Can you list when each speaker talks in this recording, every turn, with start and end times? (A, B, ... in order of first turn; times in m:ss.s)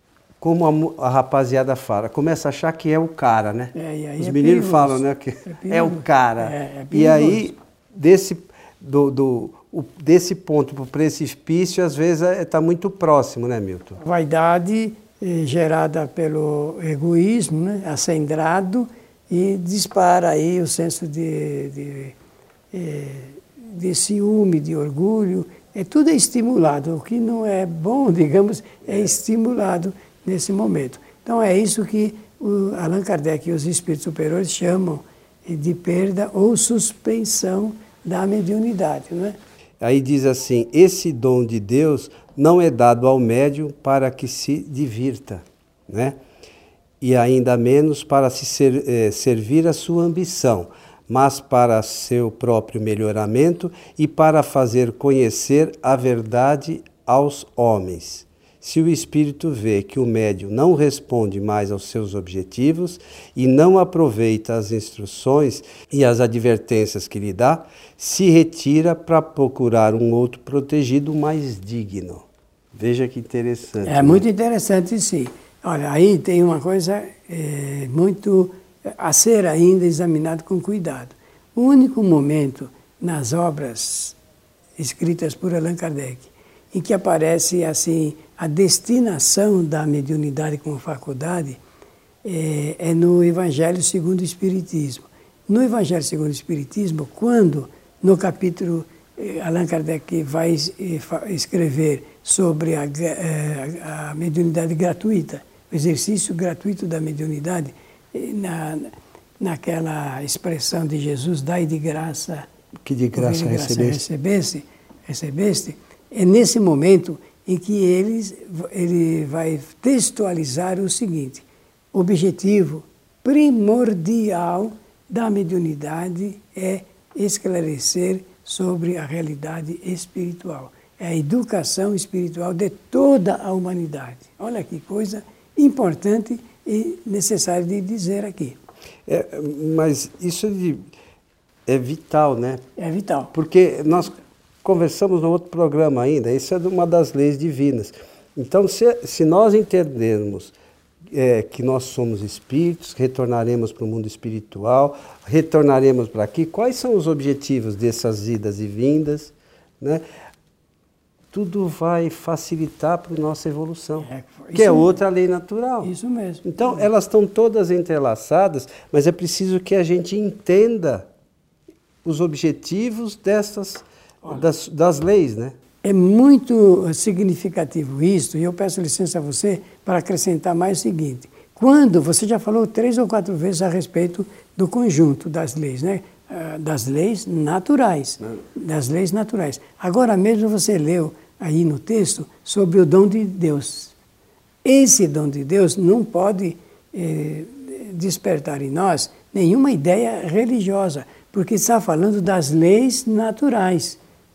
0:00.4-0:14.0 A
0:03.8-0:07.6 B
0:14.0-0:22.2 B
0:22.7-0:39.4 B
0:39.8-0:46.2 A
0:47.0-1:14.2 A
1:13.8-1:24.2 B
1:24.8-1:31.6 B
1:32.2-1:52.5 B
1:52.8-1:54.0 A
1:53.1-2:18.6 B
2:19.1-2:20.8 A
2:21.7-2:22.6 A
2:22.8-2:23.3 B
2:23.3-2:30.6 A
2:31.1-2:40.0 A
2:41.3-2:45.9 A
2:44.0-2:45.0 B
2:45.8-2:46.9 B
2:46.4-2:51.1 A
2:52.0-2:55.5 A
2:55.8-3:14.0 B
3:14.6-3:24.0 B